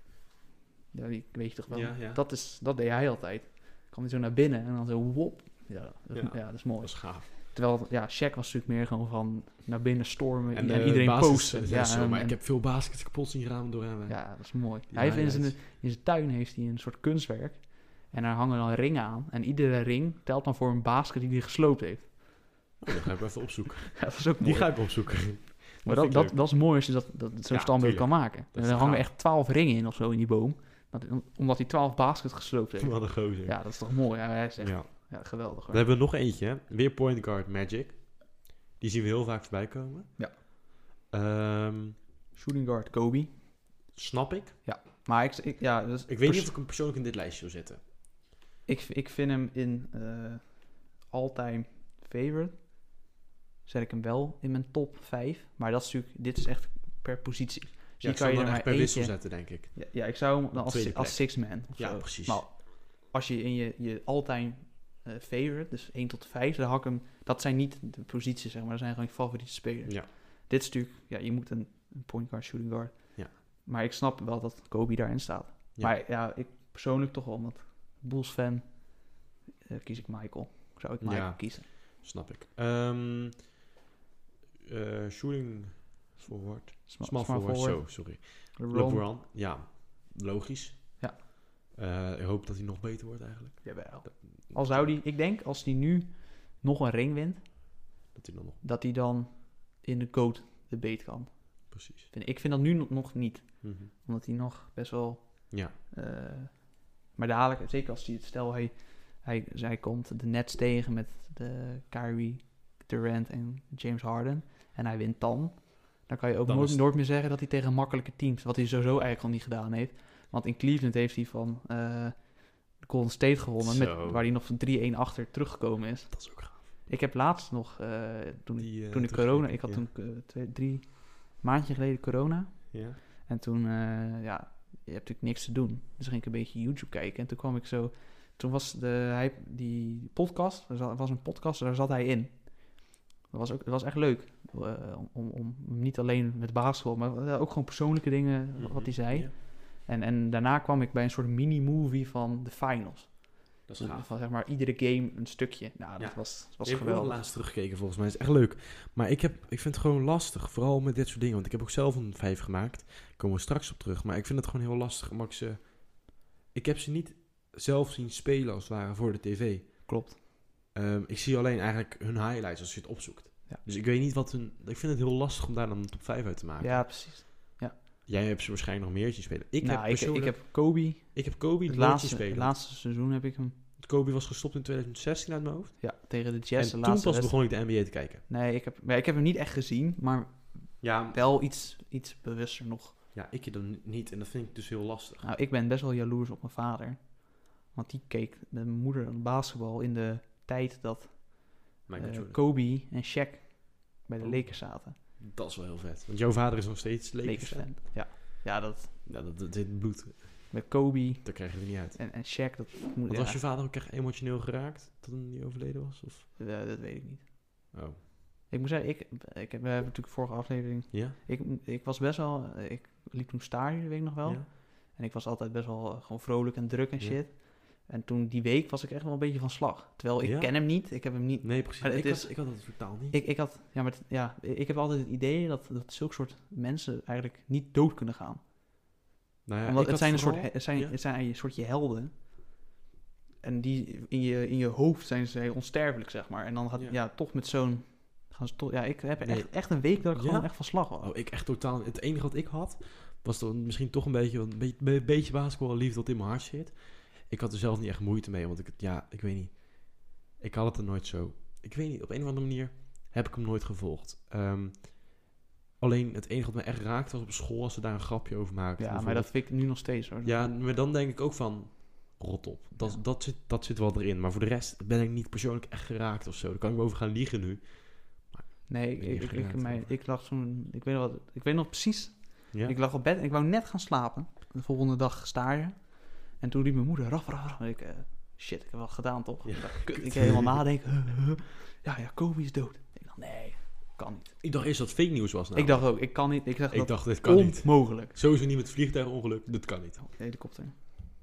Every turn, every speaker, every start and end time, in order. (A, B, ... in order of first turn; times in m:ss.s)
0:00.9-0:12.4 A
0:01.7-0:02.2 B
0:06.1-0:07.3 B
0:10.5-0:15.6 B
0:14.1-0:22.7 A
0:22.8-0:26.5 B
0:24.0-0:35.9 A
0:27.5-0:29.1 B
0:32.8-0:40.5 B
0:41.1-0:42.0 B
0:42.3-0:43.4 A
0:43.9-0:44.6 B
0:44.6-0:46.5 A
0:46.1-0:47.8 B
0:48.7-0:53.0 A
0:53.6-1:21.7 A
0:58.0-1:02.4 B
1:21.0-1:23.5 B
1:24.6-1:34.9 B
1:26.9-1:29.1 A
1:33.6-1:37.8 A
1:38.1-1:38.6 B
1:38.6-2:37.2 A
1:41.7-1:42.1 B
1:43.6-1:43.9 B
1:56.4-1:56.8 B
2:03.6-2:04.2 B
2:06.1-2:06.6 B
2:08.6-2:09.9 B
2:12.7-2:13.0 B
2:28.6-2:29.3 B
2:33.7-2:34.1 B
2:36.0-2:50.0 B
2:49.9-2:50.2 A
2:50.7-2:57.4 B
2:56.6-2:57.8 A
2:58.0-3:02.6 B
2:59.6-3:03.6 A
3:03.8-3:08.2 B
3:05.8-3:13.0 A
3:10.8-3:11.2 B
3:13.1-3:15.3 B
3:15.2-3:25.0 A
3:21.9-3:22.4 B
3:24.2-3:28.1 B
3:27.2-3:29.0 A
3:29.0-3:30.6 B
3:30.5-3:33.4 A
3:31.2-3:32.1 B
3:33.1-3:36.3 B
3:36.4-3:37.7 A
3:37.7-3:38.0 B
3:38.5-3:59.0 A
3:50.2-3:53.2 B
3:59.4-4:01.0 B
3:59.6-4:02.5 A
4:03.4-4:11.1 A
4:09.2-4:40.0 B
4:28.8-4:30.5 A
4:38.7-4:54.4 A
4:49.4-4:50.6 B
4:54.4-5:00.0 B
4:55.5-4:58.2 A
5:00.0-5:00.8 A